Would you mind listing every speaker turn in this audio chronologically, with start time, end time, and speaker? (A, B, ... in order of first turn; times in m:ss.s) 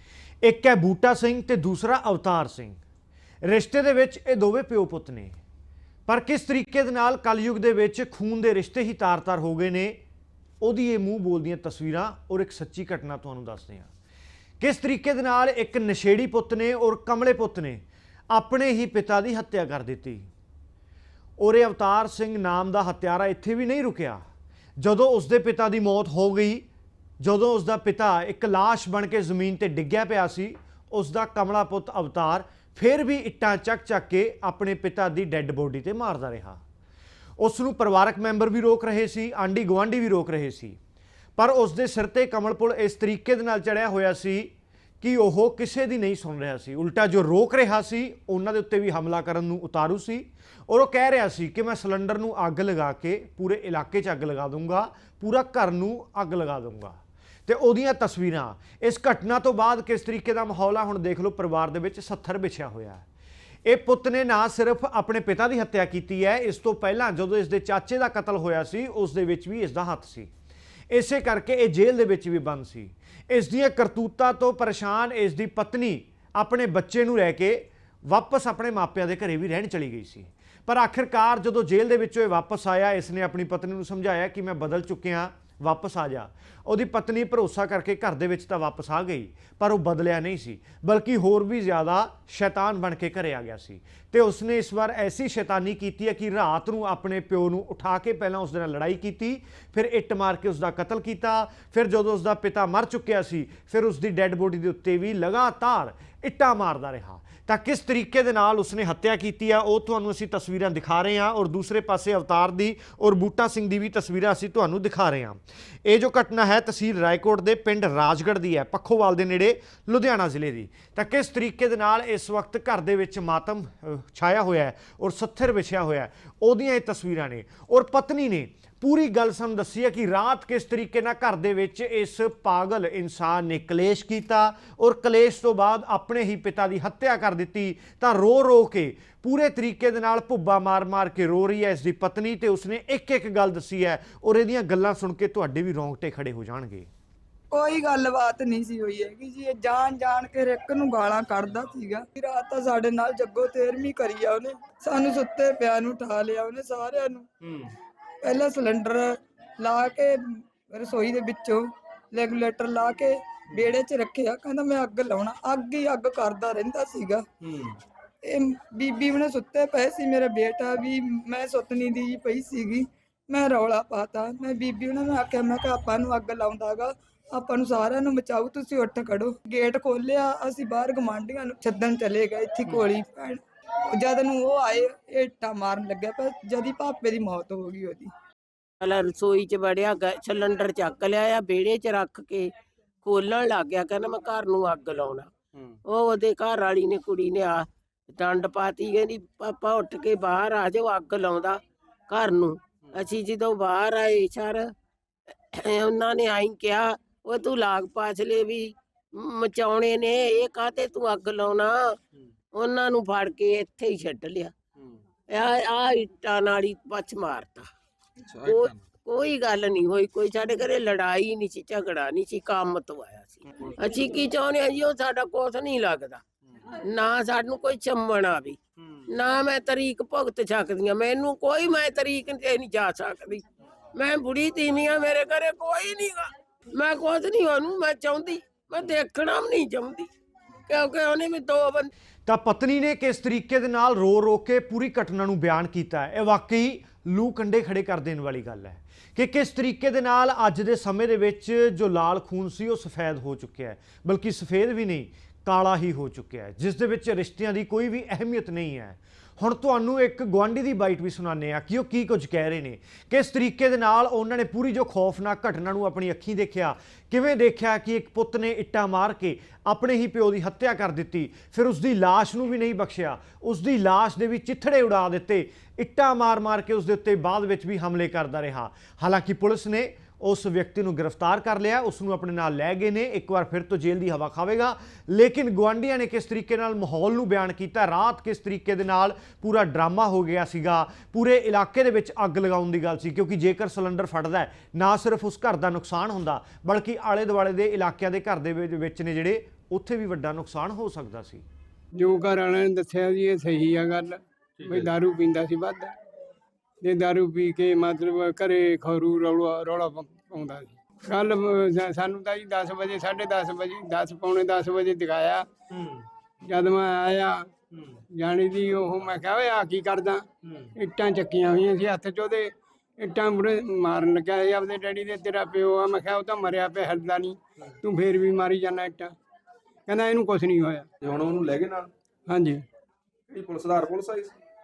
0:00.4-0:02.8 A
0:03.4-0:05.4 A
0:06.1-0:10.0 A
0:10.6-0:13.9 A
0:14.6-0:20.3 A
0:21.4-0:24.2 A
0:24.8-0:26.6 A
0:27.2-0:36.6 A
0:37.4-0:40.8 A
0:41.4-0:44.5 A
0:45.0-1:03.0 A
1:03.6-1:10.3 A
1:10.9-2:26.9 A
2:27.5-2:37.2 B
2:37.4-2:37.7 C
2:38.2-2:47.2 B
2:47.4-2:47.8 C
2:48.2-3:08.1 B
3:08.8-3:12.5 D
3:13.0-3:15.3 D
3:15.9-3:24.6 D
3:25.5-3:32.0 D
3:32.5-3:34.5 D
3:35.3-3:37.7 D
3:38.2-3:38.8 C
3:38.4-3:46.2 D
3:46.9-3:48.6 D
3:49.1-3:53.4 D
3:53.9-4:00.1 D
4:00.7-4:01.9 D
4:02.2-5:01.4 A
5:02.0-5:05.9 E
5:04.6-5:04.9 C
5:06.8-5:15.4 E
5:15.7-5:16.0 C
5:16.4-5:17.5 E
5:17.7-5:18.0 C
5:18.1-5:29.1 E
5:20.4-5:20.7 C
5:29.9-5:30.9 E
5:31.0-5:31.9 C
5:32.3-5:32.6 E
5:33.3-5:34.3 C